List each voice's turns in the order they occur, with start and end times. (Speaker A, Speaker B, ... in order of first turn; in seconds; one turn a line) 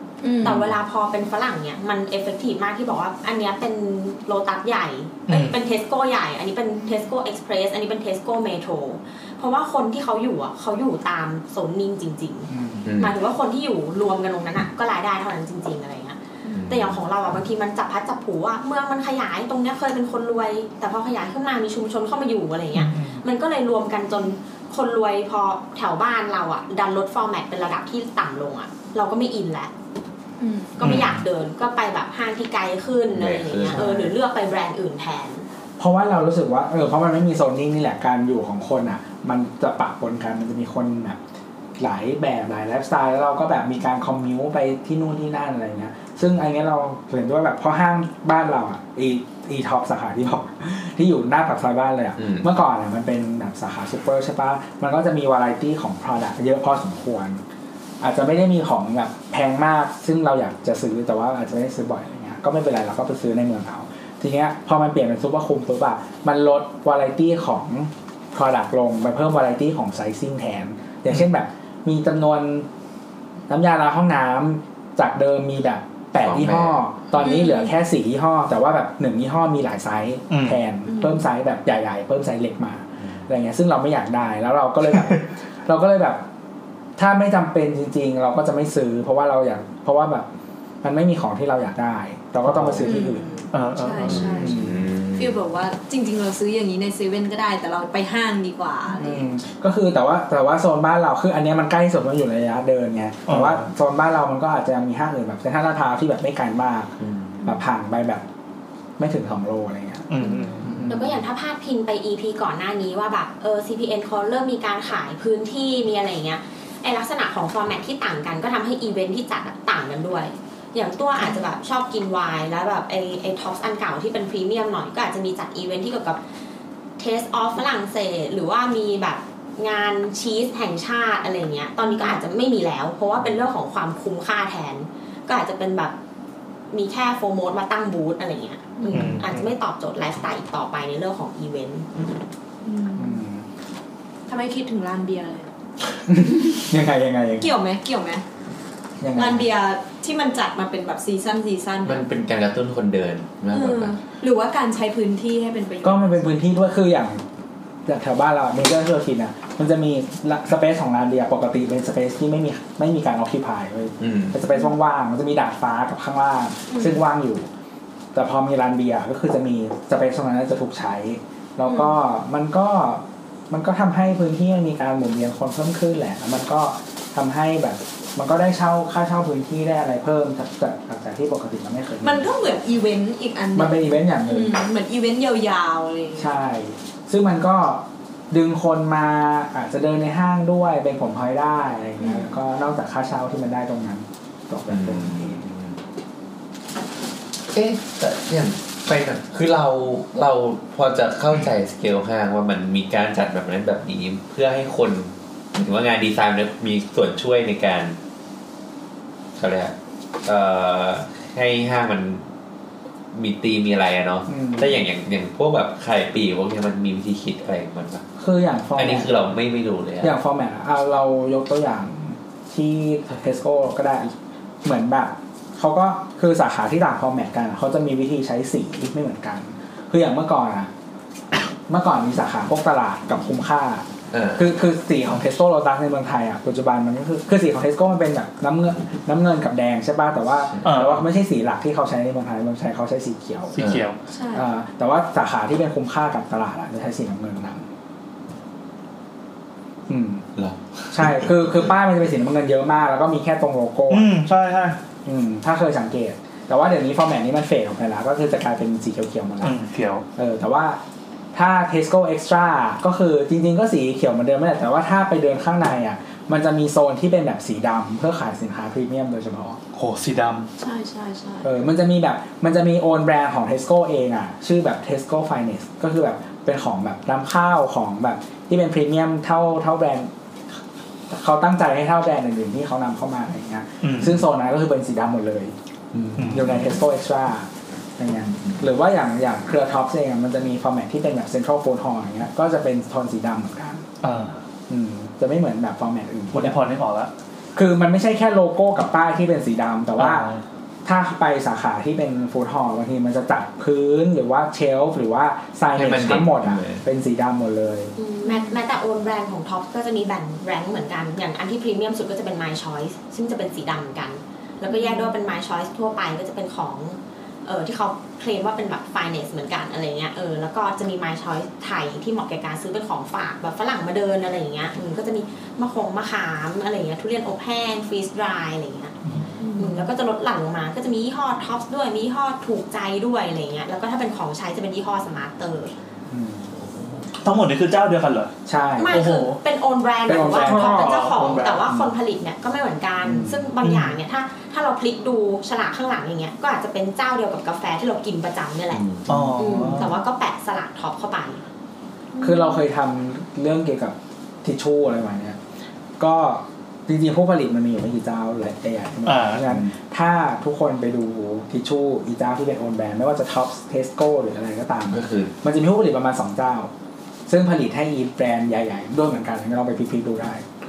Speaker A: 0.2-0.7
Speaker B: 0.4-29.7
Speaker C: 0.4-0.7
Speaker D: 5.3-5.5
Speaker C: 12.5-12.9
Speaker E: 12.8-13.1
Speaker E: 16.5-17.0
Speaker D: 22.7-23.2
Speaker A: 30.4-31.0
Speaker B: 30.8-35.5
Speaker D: 30.8-31.2
Speaker E: 33.1-33.9
Speaker C: 33.7-34.1
Speaker C: 35.8-41.2
Speaker C: 41.8-57.4
Speaker E: 52.2-52.5
Speaker C: 58.0-72.7
Speaker C: 73.5-86.2
Speaker E: 76.2-76.8
Speaker A: 77.2-77.7
Speaker D: 80.3-80.6
Speaker A: 80.9-81.2
Speaker D: 84.9-85.2
Speaker C: 87.0-90.3
Speaker C: 90.8-93.3
Speaker E: 92.4-92.9
Speaker A: 92.8-94.6
Speaker D: 93.5-94.3
Speaker E: 94.0-95.4
Speaker C: 94.3-94.8
Speaker A: 95.1-99.2
Speaker C: 98.9-108.2
Speaker D: 103.3-103.6
Speaker E: 107.0-107.4
Speaker C: 109.0-110.1
Speaker D: 110.1-110.8
Speaker A: 110.2-110.6
Speaker C: 110.6-111.2
Speaker B: 110.8-126.2
Speaker B: 127.0-135.9
Speaker A: 131.8-132.2
Speaker B: 136.7-141.9
Speaker A: 138.8-139.2
Speaker D: 138.9-139.5
Speaker A: 142.6-143.2
Speaker C: 143.0-143.4
Speaker A: 144.3-145.5
Speaker C: 146.1-147.5
Speaker A: 147.4-148.2
Speaker C: 149.0-149.5
Speaker A: 149.2-152.0
Speaker E: 151.8-154.0
Speaker A: 153.5-156.1
Speaker C: 155.8-157.2
Speaker C: 157.8-167.5
Speaker E: 164.0-164.3
Speaker A: 166.7-167.0
Speaker C: 168.1-182.3
Speaker A: 171.7-171.9
Speaker A: 182.0-186.3
Speaker C: 183.5-184.6
Speaker C: 186.2-195.5
Speaker A: 192.0-192.3
Speaker E: 194.7-195.8
Speaker E: 197.5-208.0
Speaker E: 209.4-212.3
Speaker E: 213.1-218.1
Speaker C: 214.3-214.7
Speaker C: 218.2-219.1
Speaker E: 218.8-220.1
Speaker C: 220.0-230.7
Speaker C: 231.7-243.6
Speaker E: 234.1-234.4
Speaker E: 240.5-240.9
Speaker D: 240.6-241.0
Speaker D: 243.5-244.0
Speaker E: 243.6-243.8
Speaker A: 244.1-244.4
Speaker C: 244.3-247.7
Speaker C: 249.9-250.2
Speaker E: 250.3-251.3
Speaker C: 250.9-254.1
Speaker D: 253.9-254.8
Speaker C: 255.0-259.6
Speaker D: 259.4-260.0
Speaker C: 260.1-260.8
Speaker C: 261.3-269.6
Speaker D: 269.7-270.5
Speaker A: 270.6-271.5
Speaker C: 271.4-280.1
Speaker C: 281.1-293.8
Speaker D: 283.8-284.2
Speaker D: 286.2-286.5
Speaker D: 294.0-294.4
Speaker C: 294.7-296.6
Speaker D: 296.3-297.1
Speaker C: 297.5-300.2
Speaker D: 300.0-300.4
Speaker C: 300.8-307.9
Speaker E: 305.7-306.8
Speaker B: 308.0-328.9
Speaker A: 308.2-308.6
Speaker A: 314.7-315.1
Speaker A: 329.4-329.9
Speaker B: 329.6-335.7
Speaker C: 336.1-336.5
Speaker D: 337.2-338.3
Speaker C: 338.4-339.0
Speaker B: 338.8-348.8
Speaker D: 338.9-339.4
Speaker C: 340.1-341.9
Speaker D: 340.3-341.6
Speaker C: 343.0-343.5
Speaker D: 343.6-343.9
Speaker E: 348.7-349.1
Speaker C: 349.1-349.9
Speaker D: 349.1-349.9
Speaker B: 349.4-351.4
Speaker A: 352.1-352.6
Speaker C: 352.2-355.4
Speaker C: 356.0-366.7
Speaker D: 359.1-359.4
Speaker E: 364.9-365.3
Speaker C: 367.3-370.4